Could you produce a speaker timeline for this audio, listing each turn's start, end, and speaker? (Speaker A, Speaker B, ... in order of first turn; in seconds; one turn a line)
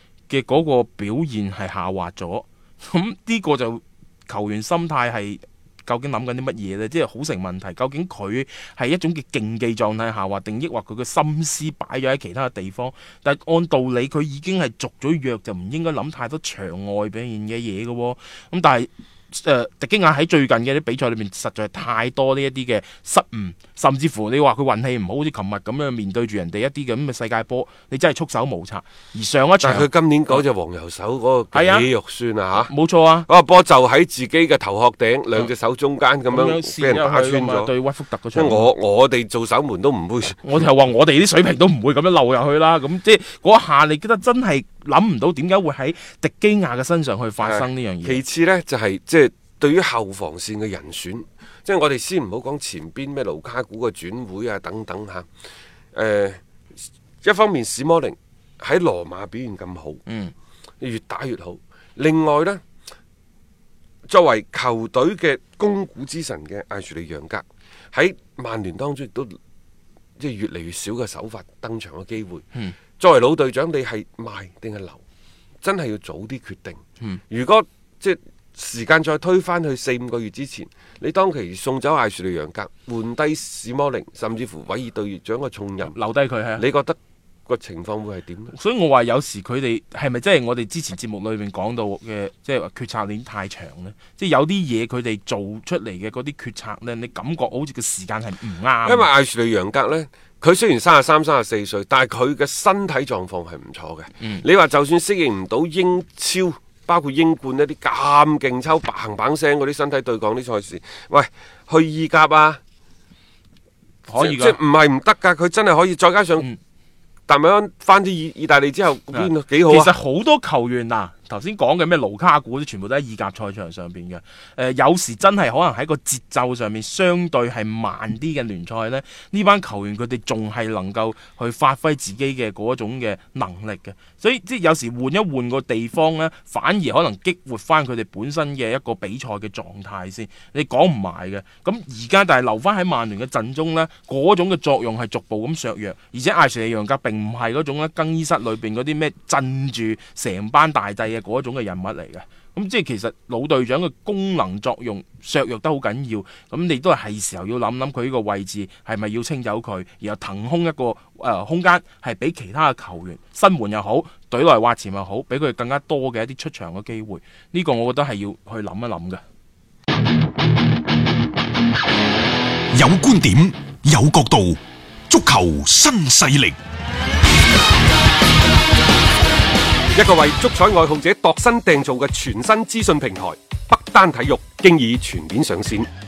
Speaker A: 0.3-30.4
Speaker B: 29.6-32.7
Speaker A: 31.5-31.9
Speaker A: 32.6-33.3
Speaker B: 33.2-37.7
Speaker A: 36.3-38.7
Speaker B: 38.3-40.5
Speaker A: 40.4-48.2
Speaker B: 47.4-55.3
Speaker B: 55.9-56.4
Speaker B: 57.2-60.0
Speaker A: 60.1-60.3
Speaker B: 60.8-62.6
Speaker B: 64.1-69.3
Speaker B: 70.2-72.4
Speaker B: 73.0-75.0
Speaker B: 75.6-86.0
Speaker A: 85.8-86.6
Speaker B: 86.6-88.5
Speaker A: 88.5-99.1
Speaker B: 98.8-112.6
Speaker A: 114.1-114.6
Speaker B: 114.2-116.5
Speaker B: 117.3-120.0
Speaker A: 119.1-169.2
Speaker C: 172.7-176.6
Speaker B: 179.9-185.9